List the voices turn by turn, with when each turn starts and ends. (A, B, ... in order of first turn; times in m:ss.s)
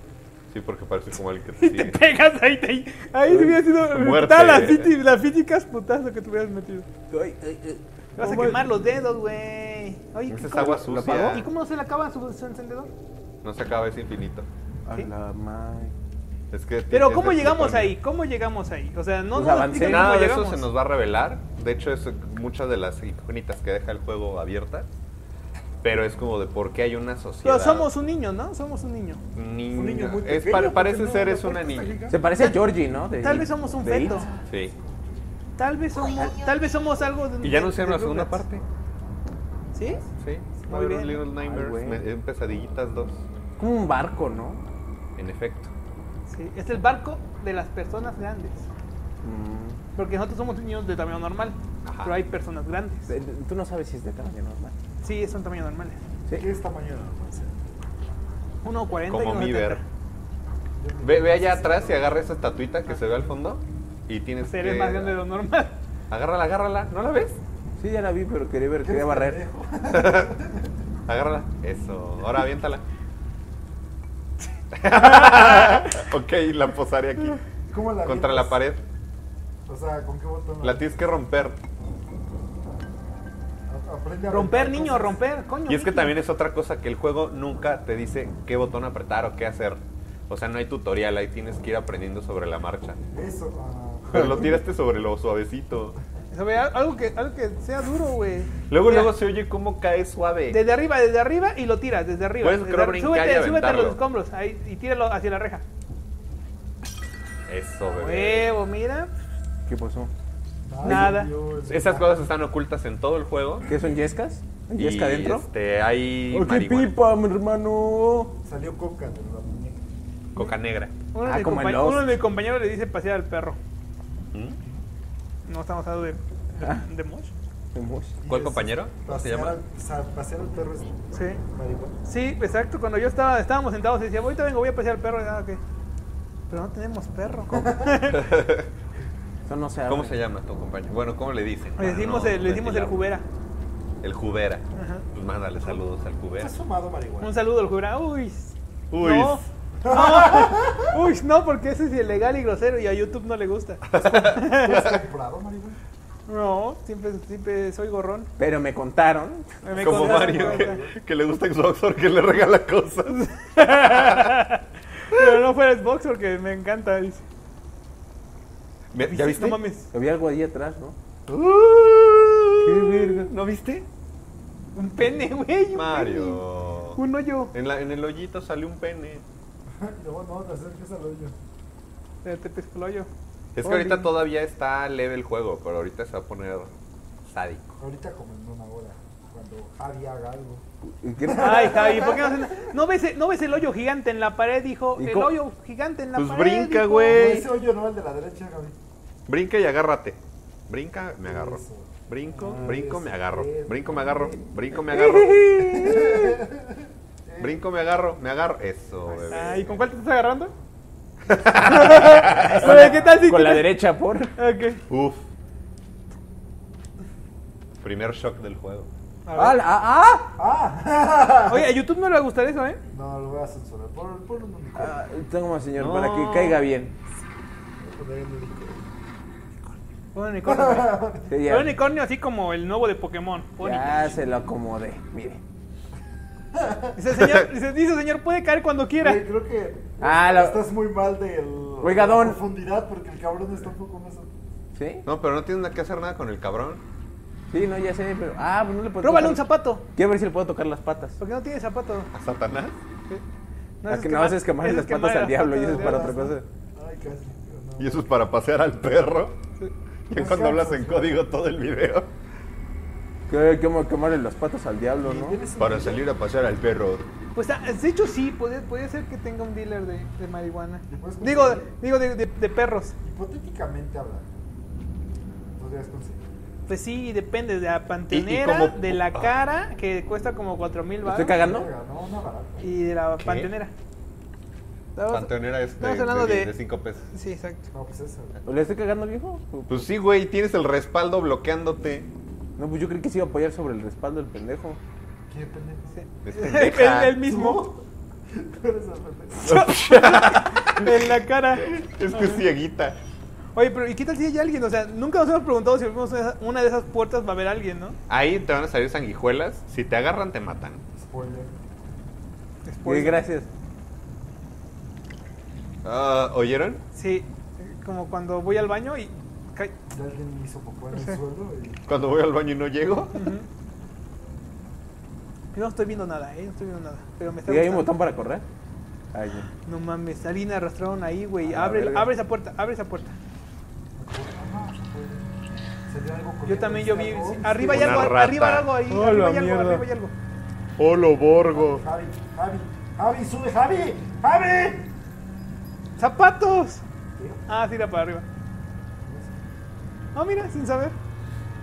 0:00.5-0:02.0 A
0:01.6-0:06.9 B
0:03.2-0:03.6 C
0:03.8-0:04.9 A
0:07.1-0:08.6 C
0:08.2-0:12.9 B
0:10.3-0:11.5 A
0:10.6-0:11.5 C
0:13.4-0:14.5 A
0:14.9-0:15.9 C
0:16.5-0:18.0 A
0:16.9-0:20.7 B
0:19.3-0:20.1 C
0:19.8-0:24.9 A
0:25.8-0:27.9 A
0:27.4-0:29.2 B
0:29.4-0:32.0 A
0:29.7-0:32.3 D
0:32.1-0:34.3 C
0:32.3-0:34.3 B
0:34.4-0:34.9 D
0:34.5-0:34.7 A
0:35.6-0:38.4 B
0:37.4-0:38.6 A
0:39.7-0:40.0 B
0:40.2-0:43.2 A
0:40.7-0:41.3 B
0:41.4-0:42.1 C
0:43.6-0:44.6 C
0:45.2-0:45.7 A
0:46.3-0:48.7 B
0:49.2-0:49.8 C
0:50.0-0:53.1 B
0:51.8-0:52.2 A
0:53.1-0:54.8 C
0:55.0-0:56.0 B
0:56.3-0:57.6 D
0:58.6-0:59.8 B
0:59.0-0:59.8 A
1:00.8-1:02.2 D
1:01.0-1:05.2 A
1:04.4-1:05.8 B
1:06.1-1:07.4 A
1:07.8-1:09.4 C
1:08.8-1:10.7 D
1:09.9-1:10.3 A
1:11.1-1:12.8 A
1:14.8-1:17.4 A
1:14.9-1:15.8 B
1:17.7-1:18.6 D
1:18.0-1:18.8 A
1:19.7-1:20.9 D
1:20.6-1:21.6 A
1:23.7-1:25.2 D
1:24.3-1:26.2 B
1:25.7-1:33.0 A
1:33.1-1:34.6 D
1:34.1-1:36.0 A
1:36.3-1:39.1 B
1:38.7-1:40.6 A
1:40.5-1:45.6 B
1:42.4-1:44.0 A
1:47.5-1:48.6 A
1:47.8-1:49.1 B
1:49.7-1:50.1 C
1:50.7-1:52.3 D
1:50.8-1:51.1 C
1:50.8-1:51.3 B
1:51.7-1:53.7 A
1:53.7-1:55.5 C
1:54.8-1:56.9 A
1:56.3-1:58.4 C
1:58.4-1:59.8 D
2:00.3-2:00.9 A
2:01.1-2:03.6 B
2:01.2-2:02.2 C
2:05.5-2:07.3 B
2:07.7-2:08.2 C
2:08.2-2:12.0 D
2:08.3-2:09.6 A
2:11.1-2:11.4 B
2:12.0-2:15.6 B
2:16.5-2:18.2 B
2:17.5-2:18.1 D
2:18.1-2:18.7 A
2:19.5-2:20.2 C
2:19.9-2:23.0 A
2:21.8-2:23.2 B
2:24.0-2:26.5 A
2:24.8-2:25.1 B
2:26.4-2:27.3 D
2:27.2-2:34.8 B
2:28.9-2:29.4 A
2:29.8-2:31.0 D
2:33.9-2:35.0 A
2:34.5-2:35.8 D
2:36.3-2:38.3 B
2:38.4-2:39.6 C
2:39.6-2:40.8 B
2:39.7-2:44.4 A
2:39.8-2:41.0 D
2:43.1-2:47.2 B
2:48.9-2:49.6 A
2:49.0-2:49.9 B
2:49.9-2:51.0 C
2:51.3-2:53.9 A
2:52.6-2:53.3 C
2:54.8-2:56.4 B
2:55.7-2:57.0 A
2:57.0-2:57.5 B
2:57.5-2:59.2 A
2:59.7-3:01.4 D
3:02.2-3:03.1 B
3:03.6-3:06.7 A
3:07.3-3:07.8 A
3:07.8-3:10.6 D
3:11.0-3:11.7 C
3:11.2-3:12.6 D
3:11.4-3:17.3 B
3:15.0-3:15.3 C
3:16.1-3:17.5 A
3:17.0-3:18.8 D
3:19.3-3:25.5 A
3:21.2-3:24.5 D
3:24.7-3:26.4 C
3:25.6-3:26.8 D
3:27.3-3:27.6 D
3:27.4-3:29.7 A
3:29.1-3:29.8 D
3:29.3-3:30.5 B
3:31.3-3:32.6 A
3:31.7-3:33.8 B
3:31.8-3:34.3 C
3:32.4-3:33.2 D
3:34.4-3:34.8 B
3:34.9-3:35.2 A
3:37.8-3:38.9 A
3:39.3-3:39.6 B
3:39.3-3:40.3 C
3:40.4-3:41.7 D
3:41.5-3:42.8 B
3:42.9-3:45.0 D
3:44.8-3:46.9 C
3:45.8-3:46.6 A
3:47.8-3:48.8 D
3:50.1-3:54.2 B
3:50.4-3:51.3 D
3:51.3-3:51.8 C
3:53.6-3:55.4 C
3:56.6-3:57.0 D
3:57.0-3:59.2 B
3:57.1-3:57.5 A
3:59.0-4:04.3 D
4:00.0-4:00.7 C
4:01.8-4:02.4 C
4:04.8-4:05.1 C
4:05.0-4:06.8 A
4:07.5-4:09.4 C
4:09.0-4:09.9 B
4:09.9-4:11.2 C
4:11.2-4:12.1 B
4:12.1-4:12.8 A
4:13.8-4:16.4 B
4:13.9-4:16.5 C
4:15.7-4:18.1 D
4:17.8-4:19.4 A
4:20.1-4:22.1 A
4:20.1-4:21.2 D
4:23.3-4:25.4 C
4:25.0-4:26.1 D
4:25.6-4:27.0 A
4:27.4-4:32.9 B
4:30.9-4:31.7 D
4:33.0-4:34.3 D
4:35.6-4:36.2 D
4:36.7-4:41.5 B
4:38.1-4:39.4 A
4:41.0-4:41.7 C
4:41.4-4:42.7 D
4:42.6-4:43.7 B
4:43.2-4:43.5 A
4:45.0-4:46.5 B
4:45.1-4:47.0 A
4:47.1-4:47.7 B
4:47.7-4:48.4 D
4:48.4-4:49.9 C
4:49.7-4:52.1 A
4:52.6-4:54.8 C
4:55.3-4:56.0 D
4:56.0-4:57.7 B
4:56.2-4:57.3 A
4:57.3-4:59.5 D
4:59.4-5:02.4 B
4:59.4-5:03.0 A
5:03.6-5:08.0 B
5:08.1-5:10.8 A
5:11.0-5:11.5 D
5:12.6-5:13.3 B
5:12.8-5:13.5 C
5:15.8-5:16.8 A
5:17.0-5:19.7 B
5:19.9-5:22.0 D
5:21.8-5:23.3 A
5:23.1-5:23.4 B
5:25.5-5:27.9 B
5:27.4-5:28.5 C
5:29.1-5:29.5 C
5:29.6-5:33.1 B
5:31.4-5:32.1 C
5:34.0-5:38.2 D
5:36.4-5:40.1 B
5:37.7-5:38.7 A
5:39.2-5:39.8 D
5:40.8-5:41.8 A
5:41.5-5:44.9 D
5:46.0-5:46.8 B
5:47.2-5:47.6 D
5:47.5-5:48.2 B
5:49.0-5:49.4 D
5:50.1-5:51.0 B